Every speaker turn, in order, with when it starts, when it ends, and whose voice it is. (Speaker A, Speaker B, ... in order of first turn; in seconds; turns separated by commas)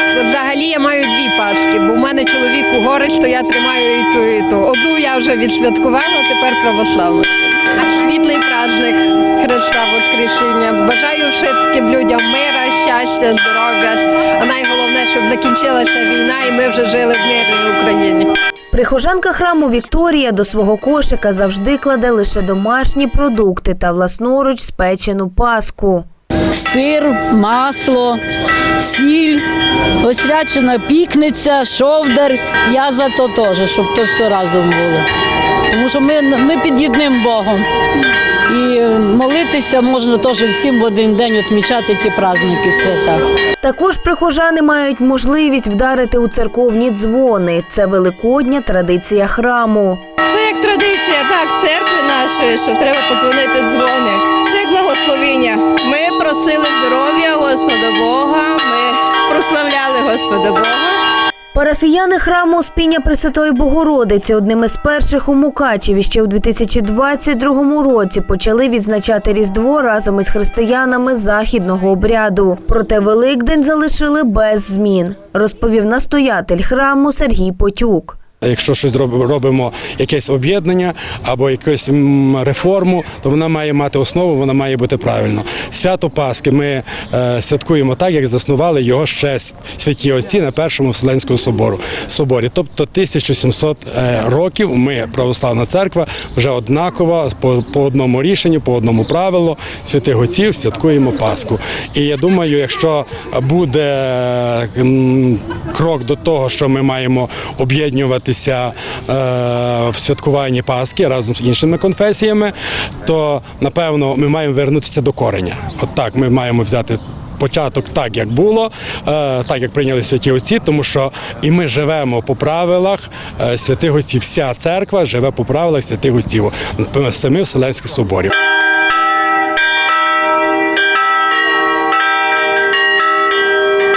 Speaker A: 0.1-18.3, Speaker B: 18.7-26.1, Speaker C: 26.5-28.2, Speaker C: 28.8-29.4, Speaker C: 30.0-35.1, Speaker C: 35.7-37.6, Speaker C: 38.5-43.2, Speaker B: 43.6-50.0, Speaker D: 50.3-61.0, Speaker B: 61.5-78.2, Speaker E: 78.4-128.3